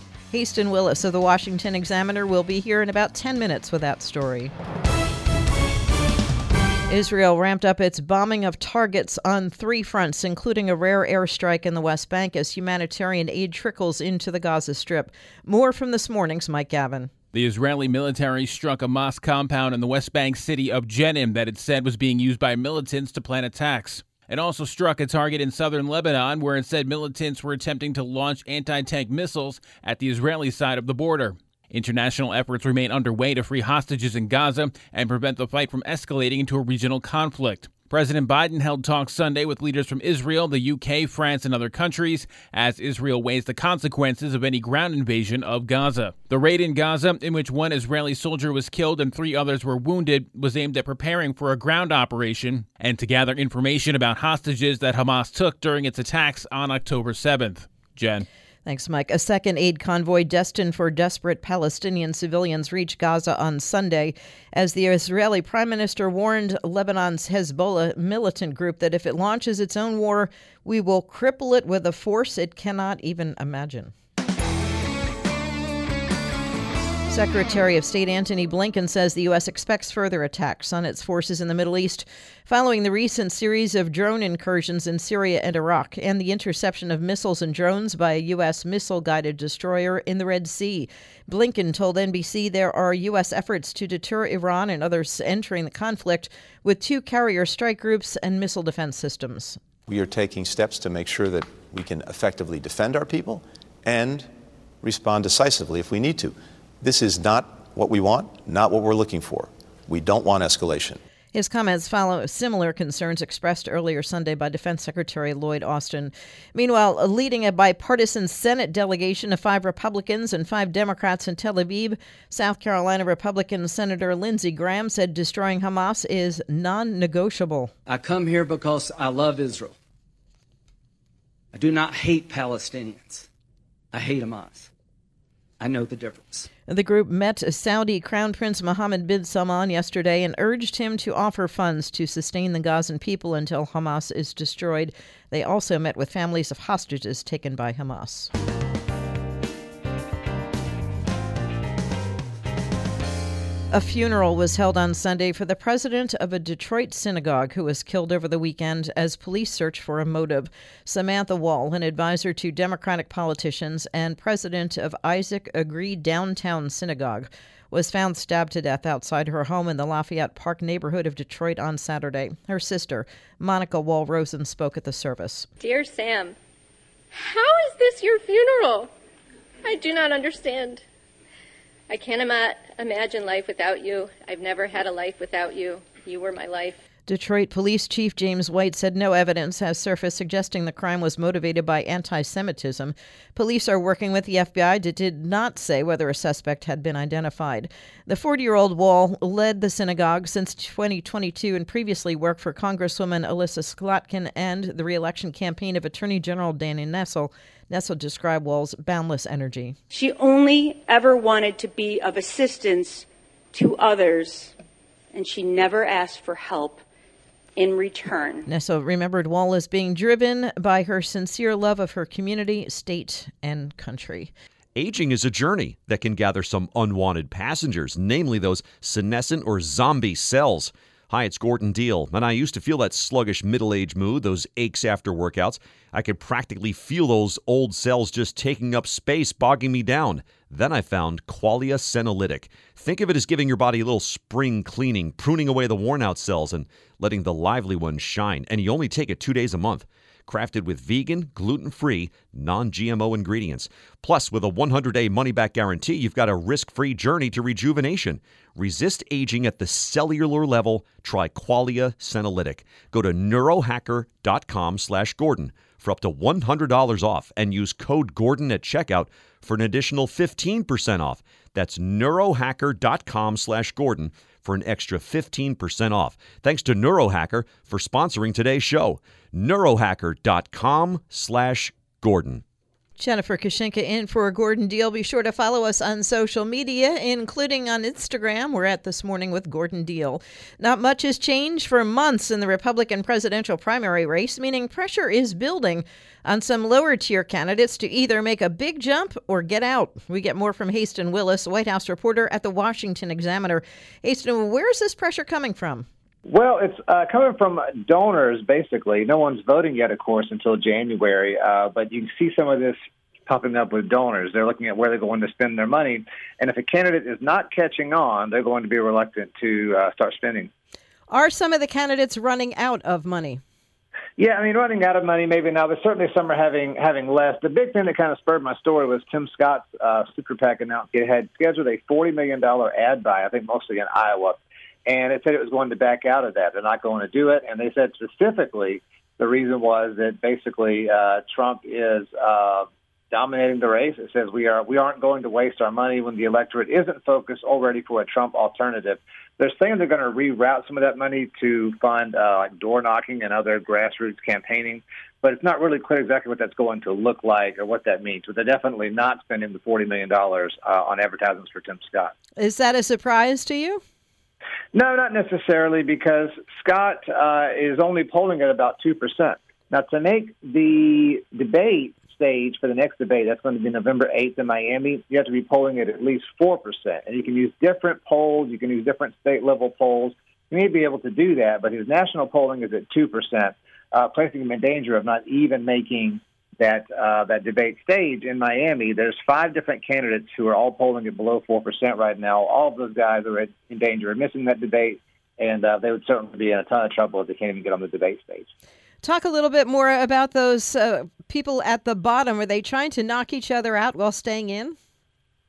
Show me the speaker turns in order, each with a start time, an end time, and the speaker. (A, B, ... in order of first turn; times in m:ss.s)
0:00.3-0:04.5 A
0:06.9-0:17.1 A
0:17.3-0:58.3 B
0:58.6-1:13.9 A
1:17.1-1:39.6 A
1:39.9-1:51.0 C
1:51.3-2:07.7 A
2:07.9-2:09.8 D
2:11.5-2:13.3 D
2:13.9-2:14.7 D
2:15.6-2:16.5 D
2:16.7-2:28.3 A
2:33.7-2:55.5 A
2:55.6-2:56.4 E
2:57.1-2:58.9 E
2:59.6-3:00.8 E
3:01.9-3:06.8 E
3:07.1-3:29.8 A
3:29.9-3:34.6 F
3:35.1-3:36.8 F
3:37.6-3:38.5 F
3:38.5-3:44.3 A
3:44.8-4:42.4 G
4:43.0-5:05.9 A
5:06.3-5:20.5 H
5:21.1-5:23.4 A
5:24.2-6:02.1 H
6:02.4-6:03.8 A
6:04.7-6:38.5 H
6:39.0-6:44.8 A